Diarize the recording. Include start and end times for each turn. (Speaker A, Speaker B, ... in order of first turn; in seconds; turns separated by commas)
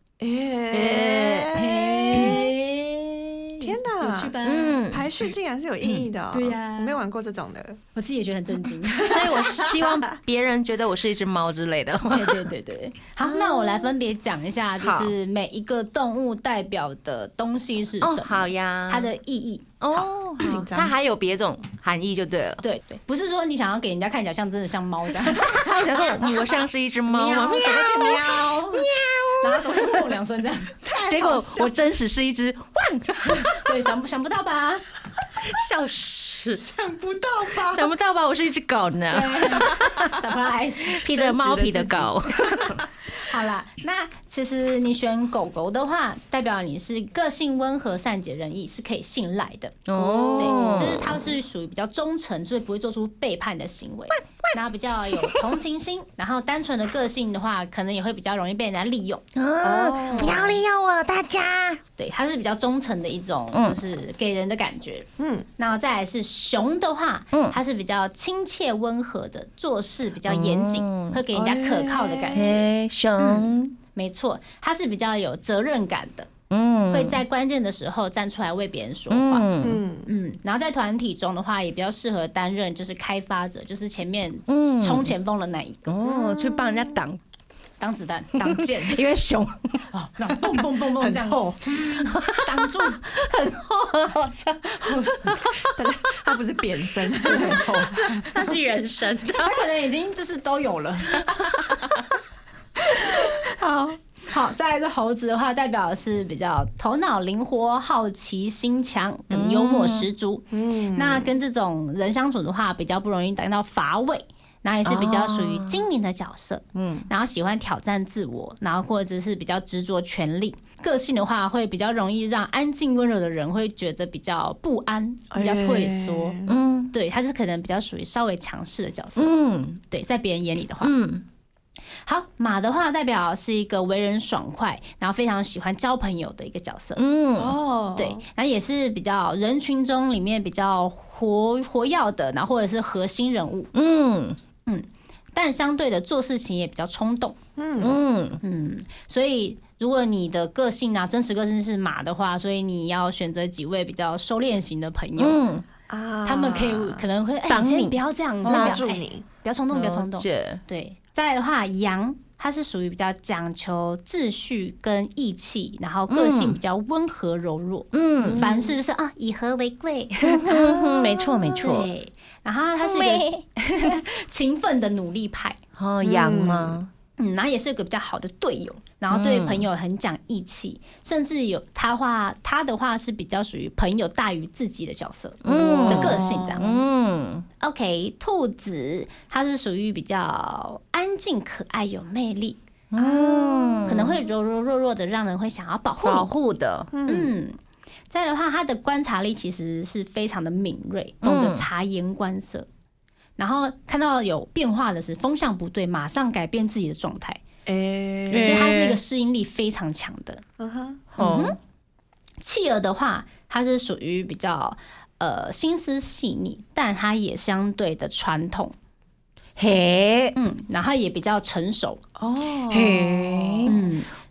Speaker A: 0.2-2.5, Speaker B: 0.7-2.4, Speaker C: 0.7-4.9, Speaker A: 3.6-7.8, Speaker B: 4.4-5.2, Speaker C: 6.3-7.0, Speaker C: 8.0-9.6, Speaker B: 9.0-12.5, Speaker A: 9.4-10.2, Speaker C: 12.1-19.8, Speaker A: 13.2-13.9, Speaker B: 14.8-15.1, Speaker B: 18.0-19.1, Speaker B: 19.8-22.6, Speaker A: 19.9-20.9, Speaker C: 22.6-30.8, Speaker B: 25.3-30.1, Speaker A: 30.8-31.7, Speaker B: 31.0-33.7, Speaker C: 33.4-34.9, Speaker B: 35.4-36.6, Speaker A: 36.5-37.9, Speaker B: 37.6-40.1, Speaker C: 39.1-41.0, Speaker A: 39.5-40.1, Speaker B: 40.9-42.8, Speaker A: 41.0-42.9, Speaker C: 43.1-59.2, Speaker B: 49.9-51.2, Speaker A: 50.0-51.2, Speaker B: 55.2-55.5, Speaker B: 59.4-61.8, Speaker A: 59.6-60.6, Speaker C: 62.0-76.3, Speaker B: 63.5-63.8, Speaker A: 65.2-65.5, Speaker B: 70.2-71.2, Speaker A: 71.3-72.6, Speaker B: 72.3-73.8, Speaker B: 76.5-77.2, Speaker C: 76.9-79.5, Speaker B: 79.1-79.8, Speaker A: 79.6-80.1, Speaker C: 80.0-85.9, Speaker B: 84.5-85.1, Speaker B: 85.9-87.2, Speaker A: 86.0-87.0, Speaker C: 87.8-88.3, Speaker A: 88.4-89.0, Speaker B: 88.4-89.8, Speaker C: 89.9-93.0, Speaker A: 91.0-92.0, Speaker B: 92.0-95.7, Speaker C: 94.7-95.4, Speaker A: 95.7-98.5, Speaker C: 97.3-97.8, Speaker B: 97.3-99.7, Speaker C: 99.4-101.4, Speaker B: 101.2-101.6, Speaker A: 101.7-102.0, Speaker C: 102.9-129.3, Speaker B: 109.3-110.1, Speaker A: 110.5-111.3, Speaker B: 114.8-115.8, Speaker B: 116.8-117.1, Speaker A: 125.3-126.5, Speaker B: 126.5-126.9, Speaker B: 129.2-129.8, Speaker C: 129.9-130.9, Speaker B: 130.8-131.2, Speaker C: 132.1-137.0, Speaker B: 137.0-137.6, Speaker A: 137.4-138.2, Speaker C: 138.0-143.7, Speaker B: 143.7-144.4, Speaker C: 144.7-147.4, Speaker A: 147.6-148.0, Speaker B: 147.8-148.4, Speaker C: 148.4-155.4, Speaker B: 155.2-155.6, Speaker A: 155.9-157.0, Speaker C: 156.2-170.9, Speaker B: 157.5-158.8, Speaker A: 158.4-159.2, Speaker B: 159.7-160.6, Speaker B: 166.1-166.6, Speaker B: 167.9-168.5, Speaker A: 168.2-168.7, Speaker B: 170.2-171.9, Speaker C: 171.5-175.6, Speaker B: 172.8-173.3, Speaker B: 175.8-176.9, Speaker A: 176.0-176.8, Speaker C: 177.2-186.8, Speaker B: 179.1-179.7, Speaker B: 185.4-187.5, Speaker A: 185.8-186.7, Speaker C: 187.6-196.3, Speaker B: 192.9-194.2, Speaker B: 196.0-196.9, Speaker A: 196.9-197.3, Speaker C: 197.1-197.6, Speaker C: 198.1-202.7, Speaker B: 201.2-201.7, Speaker C: 203.4-207.4, Speaker A: 207.7-208.8, Speaker B: 208.3-209.0, Speaker C: 208.3-210.4, Speaker A: 210.6-211.1, Speaker B: 211.1-211.6, Speaker C: 211.2-211.6, Speaker C: 212.4-218.8, Speaker B: 219.6-220.4, Speaker C: 220.4-222.1, Speaker A: 222.2-223.8, Speaker B: 222.7-223.8, Speaker C: 223.7-224.1